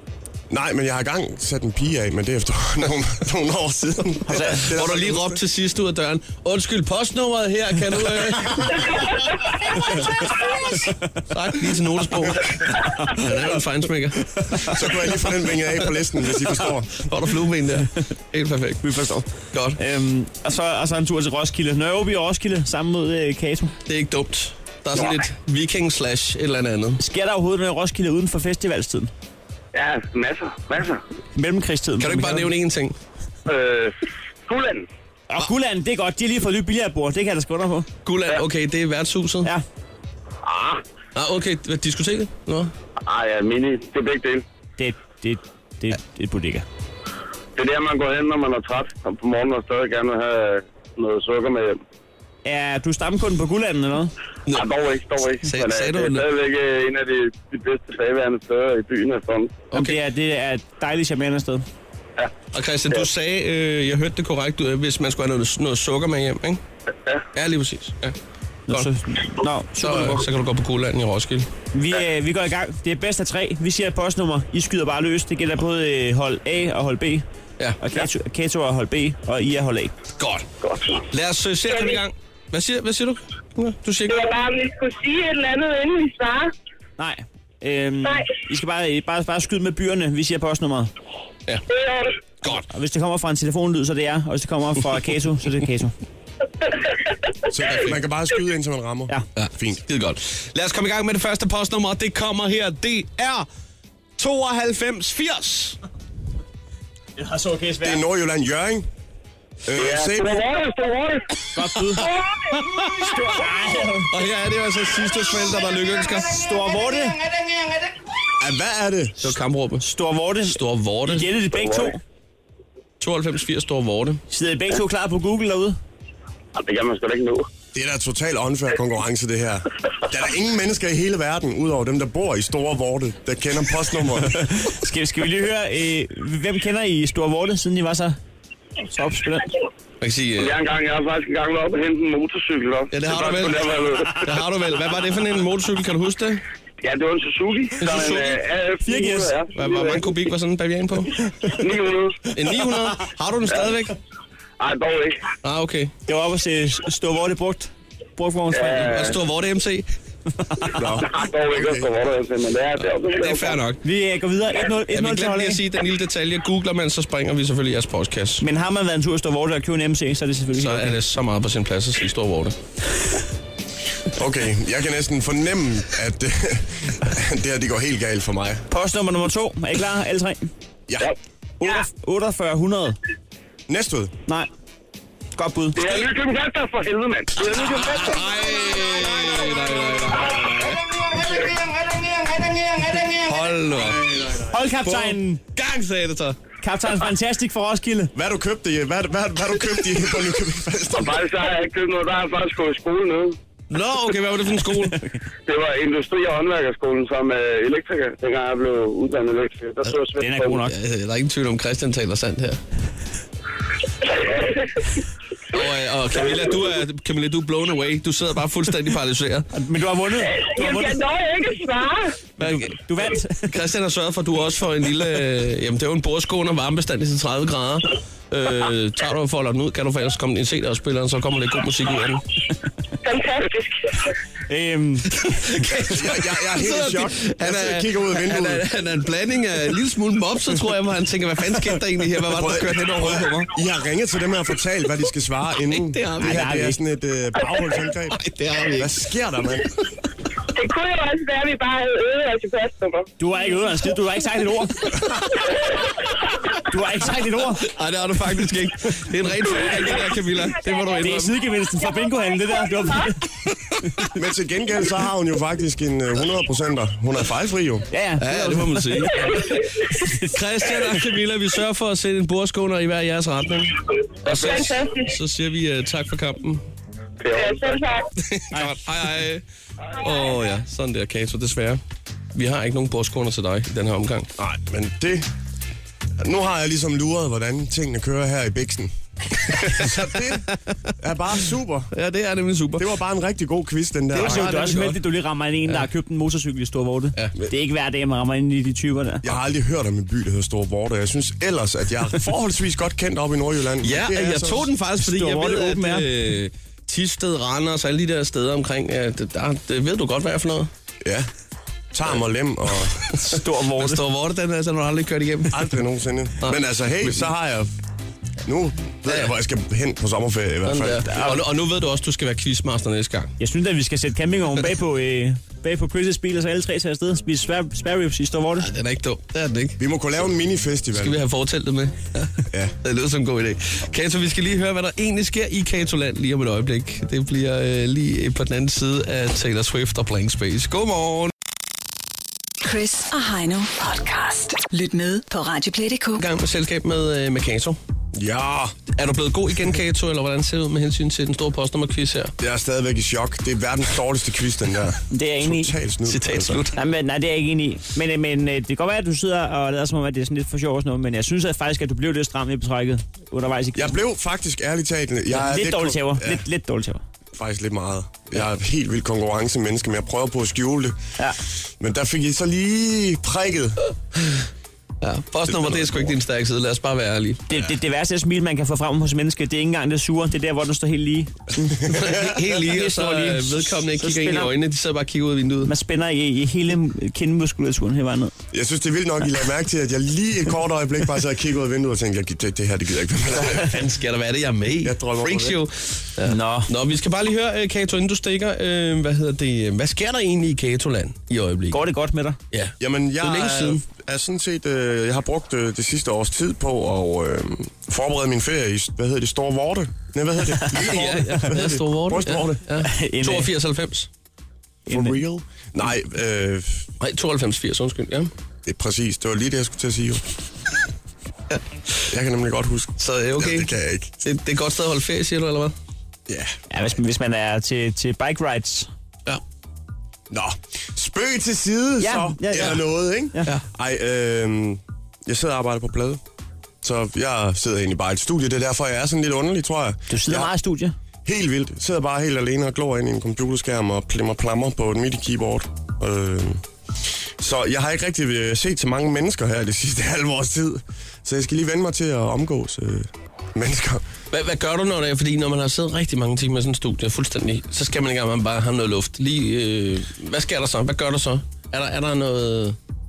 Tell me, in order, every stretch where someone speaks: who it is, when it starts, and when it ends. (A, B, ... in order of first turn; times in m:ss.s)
0:00.5-0:05.4 A
0:04.3-0:04.6 B
0:04.6-0:09.2 C
0:11.3-0:14.2 C
0:14.6-0:17.1 A
0:17.0-0:18.9 C
0:18.8-0:19.3 B
0:19.5-0:19.8 C
0:19.8-0:23.8 B
0:23.9-0:27.0 C
0:27.0-0:29.1 B
0:29.7-0:31.0 D
0:31.4-0:32.5 B
0:32.0-0:33.0 C
0:33.5-0:33.9 D
0:34.5-0:34.9 D
0:35.3-0:37.9 B
0:38.1-0:39.5 C
0:40.4-0:40.8 D
0:41.2-0:42.7 C
0:43.0-0:44.4 D
0:44.8-0:46.6 B
0:47.6-0:51.8 D
0:52.4-0:54.1 B
0:54.5-0:59.7 D
0:55.4-0:56.3 C
0:59.7-1:00.0 C
0:59.7-1:01.6 B
1:02.5-1:06.6 C
1:07.3-1:08.2 C
1:08.7-1:10.2 B
1:09.8-1:11.5 C
1:11.7-1:17.2 B
1:17.8-1:19.9 B
1:20.2-1:20.5 C
1:20.6-1:21.0 D
1:21.1-1:24.2 C
1:21.7-1:22.0 E
1:24.1-1:26.5 E
1:27.0-1:30.9 B
1:31.7-1:32.1 E
1:32.5-1:36.0 B
1:37.5-1:39.8 A
1:37.6-1:38.0 C
1:39.4-1:43.5 C
1:44.2-1:45.8 C
1:47.2-1:48.0 B
1:47.8-1:48.9 A
1:49.6-1:50.4 A
1:49.7-1:51.3 D
1:51.5-1:52.2 B
1:53.0-1:54.1 B
1:54.1-1:56.4 C
1:56.3-1:57.2 B
1:58.4-1:59.2 A
1:59.2-1:59.8 C
1:59.8-2:02.0 B
2:00.4-2:01.4 C
2:01.5-2:02.0 D
2:03.0-2:04.2 C
2:04.3-2:05.8 B
2:06.5-2:07.5 D
2:07.7-2:14.4 A
2:14.3-2:18.2 B
2:18.8-2:19.5 B
2:20.0-2:20.6 C
2:20.4-2:24.3 D
2:22.9-2:26.4 C
2:26.8-2:30.1 D
2:27.8-2:28.4 C
2:28.8-2:29.3 B
2:29.5-2:31.2 C
2:31.6-2:32.3 D
2:32.3-2:34.0 C
2:34.6-2:35.2 D
2:35.4-2:35.9 C
2:36.1-2:39.1 B
2:38.5-2:39.2 D
2:38.8-2:39.9 C
2:40.4-2:40.8 B
2:40.7-2:41.9 A
2:40.9-2:43.6 D
2:42.8-2:43.8 C
2:43.8-2:45.6 B
2:44.9-2:48.4 C
2:48.4-2:51.0 B
2:50.6-2:52.6 C
2:54.1-2:58.7 A
2:58.7-3:00.5 B
3:00.9-3:01.1 A
3:01.6-3:03.0 B
3:03.7-3:04.1 A
3:05.4-3:06.0 B
3:05.8-3:08.2 D
3:07.4-3:08.2 B
3:07.8-3:10.8 C
3:12.8-3:14.0 C
3:14.5-3:15.4 B
3:14.8-3:16.4 C
3:16.6-3:18.1 B
3:18.2-3:21.2 A
3:20.9-3:23.4 D
3:23.7-3:25.0 C
3:25.5-3:30.6 D
3:30.2-3:30.8 B
3:30.7-3:32.6 C
3:34.0-3:35.0 D
3:35.5-3:39.5 C
3:39.5-3:41.0 B
3:40.3-3:42.1 E
3:42.4-3:42.8 C
3:42.4-3:43.5 B
3:43.5-3:52.2 C
3:53.0-3:53.8 E
3:54.5-3:55.1 B
3:55.1-4:03.5 C
3:55.9-3:58.7 A
4:02.2-4:09.7 A
4:05.7-4:06.5 C
4:06.2-4:06.8 B
4:08.2-4:09.1 C
4:10.6-4:13.1 E
4:13.2-4:15.0 B
4:16.6-4:17.7 B
4:17.7-4:21.4 C
4:21.0-4:23.2 B
4:24.1-4:27.9 A
4:27.9-4:30.4 B
4:28.2-4:29.6 C
4:30.3-4:36.6 C
4:34.3-4:35.0 E
4:37.2-4:37.9 D
4:37.4-4:38.0 E
4:38.2-4:39.4 C
4:38.5-4:38.8 B
4:40.0-4:41.8 C
4:42.4-4:44.3 C
4:44.4-4:45.3 A
4:46.2-4:50.5 A
4:49.6-4:50.6 C
4:51.0-4:51.9 A
4:51.9-4:52.9 C
4:52.8-4:54.9 A
4:54.1-4:59.3 B
4:54.2-4:55.0 C
4:59.2-5:04.7 A
5:03.8-5:10.7 C
5:05.0-5:06.1 B
5:11.0-5:11.3 A
5:11.9-5:13.1 A
5:13.1-5:14.0 B
5:13.8-5:15.7 C
5:15.5-5:17.7 A
5:16.4-5:17.3 C
5:18.4-5:21.1 A
5:20.7-5:23.3 C
5:21.1-5:21.4 B
5:23.4-5:28.7 B
5:28.6-5:29.8 C
5:29.8-5:31.2 A
5:30.9-5:41.3 C
5:32.5-5:32.8 A
5:42.6-5:46.2 F
5:46.2-5:47.8 C
5:48.1-5:48.8 A
5:49.0-5:52.3 C
5:52.4-5:56.6 A
5:55.1-5:55.7 B
5:56.1-5:56.8 C
5:56.8-6:04.0 B
6:03.8-6:06.4 A
6:05.3-6:07.0 B
6:07.4-6:11.0 A
6:11.8-6:13.8 A
6:15.0-6:17.5 C
6:15.5-6:16.1 A
6:17.5-6:24.5 B
6:21.9-6:22.4 A
6:21.9-6:25.7 C
6:25.7-6:28.3 B
6:28.5-6:33.8 A
6:33.5-6:41.8 C
6:34.8-6:35.6 A
6:36.3-6:36.7 B
6:41.7-6:42.4 B
6:42.5-6:43.8 C
6:42.8-6:52.6 A
6:50.7-6:54.1 C
6:52.8-6:53.5 B
6:54.9-6:55.2 B
6:54.9-6:56.9 A
6:57.0-6:58.3 C
6:58.6-7:00.3 A
7:02.1-7:04.2 A
7:03.0-7:03.7 C
7:04.2-7:05.8 C
7:06.3-7:06.6 A
7:06.7-7:08.9 B
7:10.3-7:16.2 A
7:12.0-7:13.5 B
7:16.8-7:20.5 A
7:20.1-7:21.0 B
7:21.2-7:26.6 A
7:27.4-7:34.0 A
7:34.3-7:42.8 C